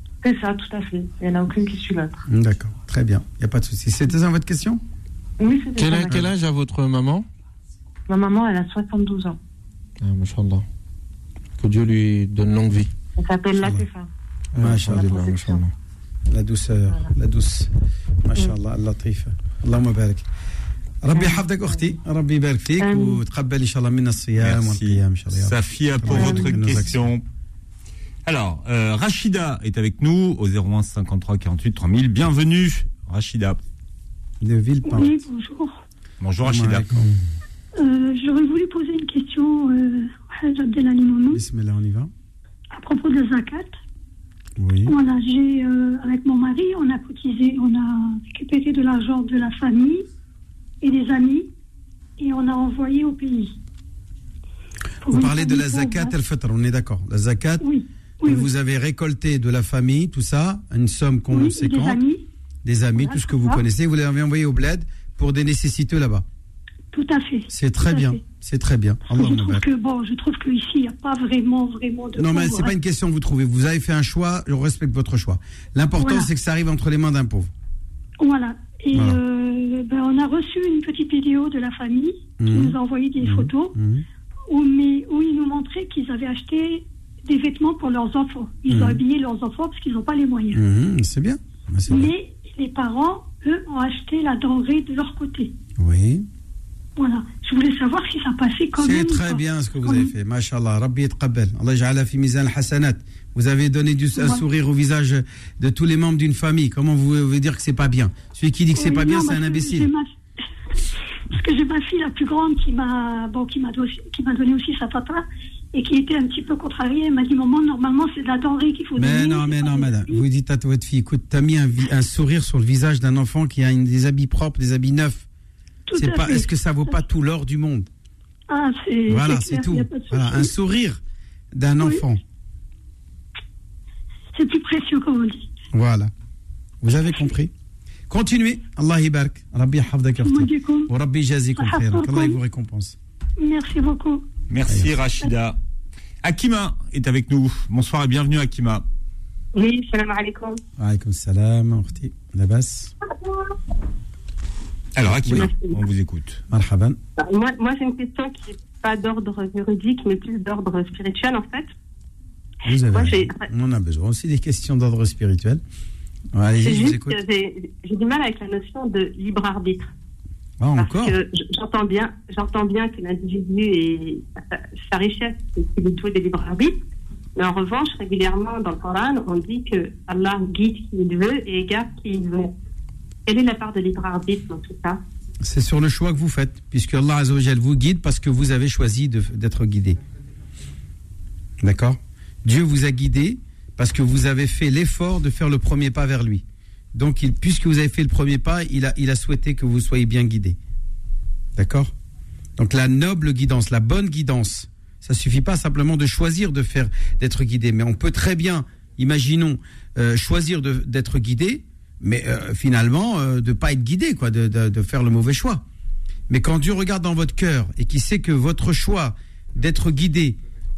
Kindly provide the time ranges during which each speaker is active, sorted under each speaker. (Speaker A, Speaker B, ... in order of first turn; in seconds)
Speaker A: 0.2-2.1, 5.4-6.3, 8.1-9.4, 13.2-14.1, 14.9-15.6, 21.1-21.9, 26.1-26.4
Speaker B: 2.3-4.8, 14.6-15.2, 16.3-17.7, 18.2-20.2, 21.0-27.1, 34.4-35.2, 36.4-37.1, 41.3-42.1, 44.6-45.0, 55.1-57.6, 58.2-62.0, 62.6-66.2, 67.5-69.7, 72.2-77.5, 78.9-79.2, 82.4-84.0, 88.7-89.0, 90.5-92.1, 95.8-96.2, 98.8-109.9, 119.0-125.2, 126.0-127.9, 129.1-131.0, 131.5-132.2, 135.7-136.1, 136.8-137.5, 138.1-142.9, 150.8-152.9, 155.2-155.5, 156.5-157.0, 162.7-165.6, 166.3-167.2, 170.6-171.2, 185.4-190.0, 191.6-200.6, 201.6-201.9, 202.6-215.6, 216.3-220.4
Speaker C: 5.8-7.2, 10.0-10.6, 11.6-12.9, 14.5-15.7
Speaker D: 24.4-27.2, 28.2-33.6, 36.2-36.9, 144.5-145.6, 146.2-148.8, 154.9-156.4
Speaker E: 34.8-35.8, 37.8-41.4, 42.7-43.8, 44.9-50.1, 50.8-51.5, 52.2-53.6, 55.0-56.1, 57.6-58.5, 61.3-62.2, 63.0-63.6, 66.9-68.2, 69.1-72.7, 76.0-76.3, 78.2-83.8, 84.5-90.6, 91.9-95.5, 97.0-100.1, 104.1-104.4, 108.7-110.1, 111.3-120.2, 125.9-127.0, 128.5-130.5, 131.8-132.0, 134.3-135.5, 140.2-140.9, 141.6-142.4, 143.4-144.2
Speaker F: 149.6-150.5, 157.2-161.7, 162.9-163.4, 166.6-169.9, 170.8-176.7, 177.4-182.4, 183.3-184.9